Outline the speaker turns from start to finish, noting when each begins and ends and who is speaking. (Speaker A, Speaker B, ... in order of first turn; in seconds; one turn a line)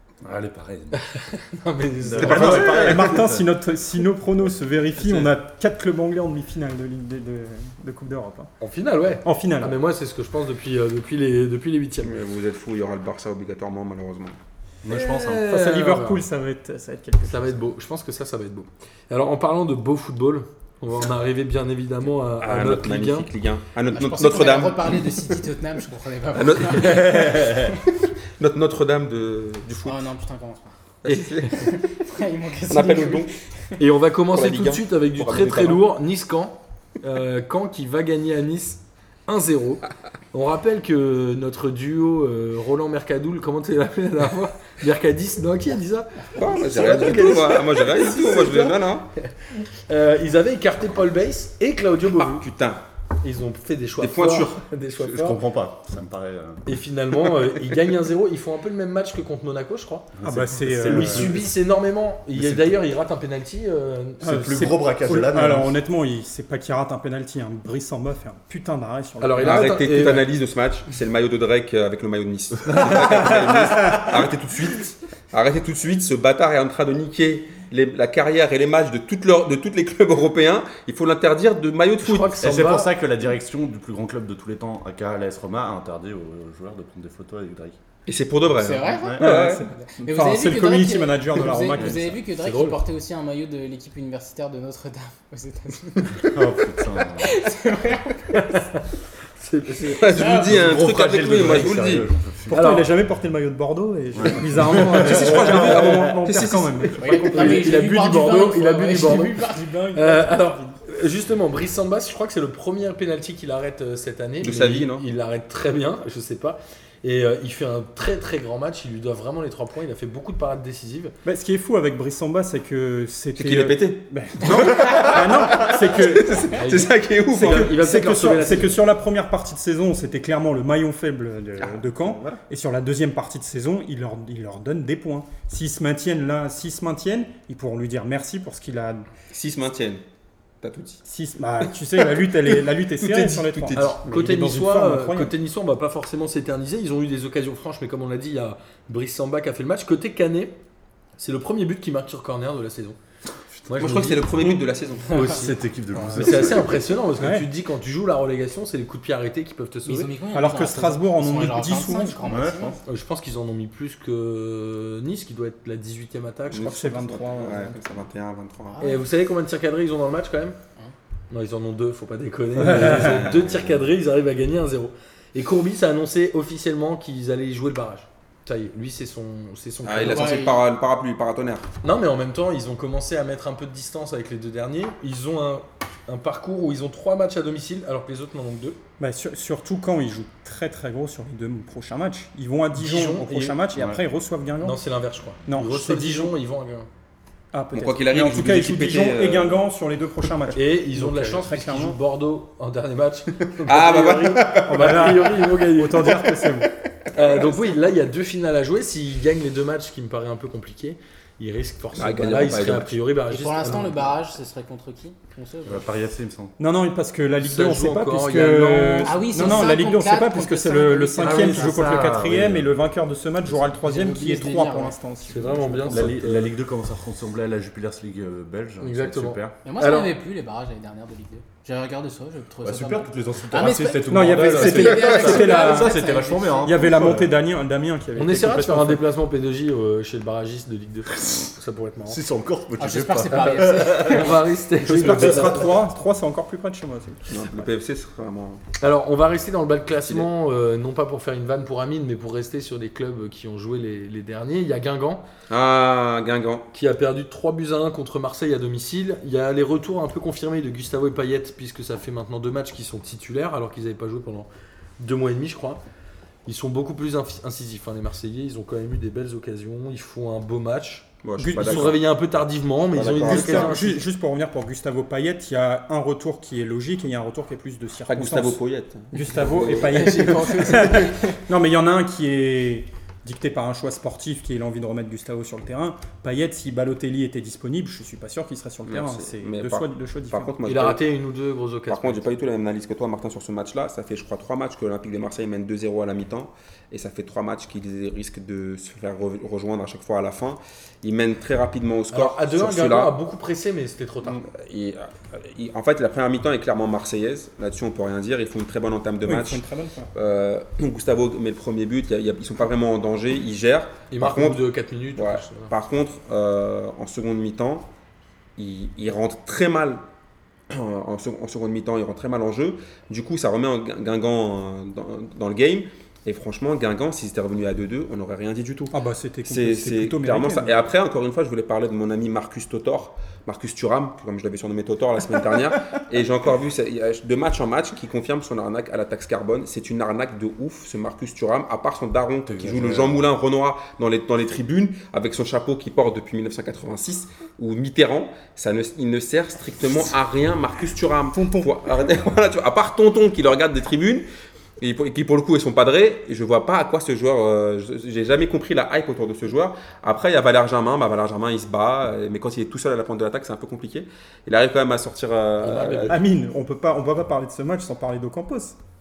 Speaker A: 0.2-1.0
Speaker B: 0.9-3.0
Speaker A: 2.0-3.4
Speaker C: 2.2-8.5
Speaker B: 5.0-5.3
Speaker B: 8.6-12.1
Speaker C: 9.2-9.8
Speaker D: 12.0-14.4
Speaker A: 14.8-15.4
Speaker B: 14.9-16.2
Speaker C: 15.5-17.6
Speaker B: 17.2-23.3
Speaker D: 22.4-25.2
Speaker E: 23.9-27.8
Speaker D: 26.3-30.1
Speaker A: 26.9-27.7
Speaker E: 29.8-33.5
Speaker D: 31.0-31.8
Speaker D: 32.7-33.3
Speaker B: 33.8-49.3
Speaker D: 34.3-35.8
Speaker D: 46.3-49.1
Speaker B: 49.9-52.5
Speaker D: 52.2-52.8
Speaker B: 53.2-55.4
Speaker D: 54.0-54.6
Speaker A: 55.0-56.7
Speaker B: 56.7-64.8
Speaker A: 60.2-61.5
Speaker C: 60.2-61.4
Speaker A: 62.3-62.8
Speaker A: 64.2-65.8
Speaker C: 64.2-70.1
Speaker B: 69.2-70.3
Speaker D: 69.4-82.5
Speaker A: 72.7-73.9
Speaker B: 82.0-82.9
Speaker A: 82.4-87.8
Speaker D: 88.1-89.6
Speaker E: 88.5-98.5
Speaker A: 88.9-89.3
Speaker C: 89.2-92.2
Speaker A: 91.7-92.0
Speaker B: 92.4-92.8
Speaker A: 96.2-97.4
Speaker B: 98.3-100.1
Speaker E: 99.8-100.6
Speaker D: 99.9-102.1
Speaker A: 100.3-102.7
Speaker C: 102.5-108.1
Speaker B: 102.5-102.9
Speaker A: 104.2-106.2
Speaker D: 104.8-107.2
Speaker E: 107.0-110.2
Speaker B: 107.3-121.2
Speaker C: 109.5-110.7
Speaker D: 114.4-115.0
Speaker C: 121.2-126.6
Speaker D: 123.4-127.7
Speaker B: 126.6-128.8
Speaker C: 127.3-139.1
Speaker D: 131.6-132.4
Speaker D: 139.3-140.0
Speaker D: 140.6-141.0
Speaker C: 141.0-145.3
Speaker D: 142.9-144.2
Speaker B: 143.8-150.6
Speaker B: 151.2-153.0
Speaker B: 153.7-154.2
Speaker D: 153.8-155.5
Speaker A: 155.1-156.8
Speaker E: 155.1-155.5
Speaker B: 156.1-160.1
Speaker C: 157.2-157.5
Speaker E: 159.8-162.8
Speaker C: 160.3-162.2
Speaker A: 162.2-162.8
Speaker B: 162.9-166.8
Speaker C: 166.5-167.9
Speaker D: 166.5-168.8
Speaker E: 168.7-169.0
Speaker B: 168.8-170.6
Speaker B: 171.3-180.5
Speaker C: 172.8-173.2
Speaker D: 172.9-173.7
Speaker D: 179.8-181.7
Speaker E: 180.1-180.7
Speaker B: 181.8-188.8
Speaker C: 189.0-194.8
Speaker B: 192.8-193.6
Speaker B: 194.6-196.9
Speaker C: 195.5-196.3
Speaker C: 197.5-202.0
Speaker D: 197.7-199.6
Speaker B: 200.6-206.2
Speaker D: 203.6-205.3
Speaker C: 204.7-206.7
Speaker B: 207.1-214.2
Speaker D: 211.9-213.0
Speaker E: 213.3-215.9
Speaker A: 215.7-216.5
Speaker C: 216.6-225.7
Speaker B: 217.4-219.7
Speaker E: 219.0-222.0
Speaker A: 221.2-222.7
Speaker E: 223.6-226.1
Speaker B: 225.3-226.5
Speaker A: 225.9-229.6
Speaker B: 228.8-230.1
Speaker E: 229.6-237.0
Speaker A: 232.6-237.3
Speaker C: 234.1-236.0
Speaker C: 236.6-239.0
Speaker B: 238.2-242.2
Speaker A: 238.4-238.7
Speaker A: 241.1-241.5
Speaker A: 242.1-245.6
Speaker E: 242.8-244.4
Speaker B: 243.8-245.7
Speaker C: 244.8-247.3
Speaker D: 247.3-248.6
Speaker B: 248.8-255.2
Speaker D: 255.5-256.7
Speaker B: 256.7-264.5
Speaker B: 265.0-265.8
Speaker B: 266.5-271.1
Speaker D: 271.2-272.0
Speaker C: 271.4-272.0
Speaker B: 271.6-274.0
Speaker D: 272.9-273.9
Speaker C: 273.2-278.6
Speaker D: 278.1-281.1
Speaker C: 279.1-290.5
Speaker E: 279.4-281.2
Speaker D: 288.9-291.0
Speaker B: 290.7-292.3
Speaker D: 291.9-303.1
Speaker B: 302.1-304.4
Speaker D: 304.2-309.6
Speaker C: 309.2-310.1
Speaker D: 310.1-314.6
Speaker B: 314.1-315.7
Speaker D: 315.1-317.9
Speaker D: 318.6-320.0
Speaker D: 320.7-329.0
Speaker C: 328.9-330.9
Speaker D: 329.5-354.2
Speaker A: 342.5-343.2
Speaker C: 351.3-351.7
Speaker D: 354.8-366.2
Speaker B: 365.6-366.2
Speaker C: 366.1-368.8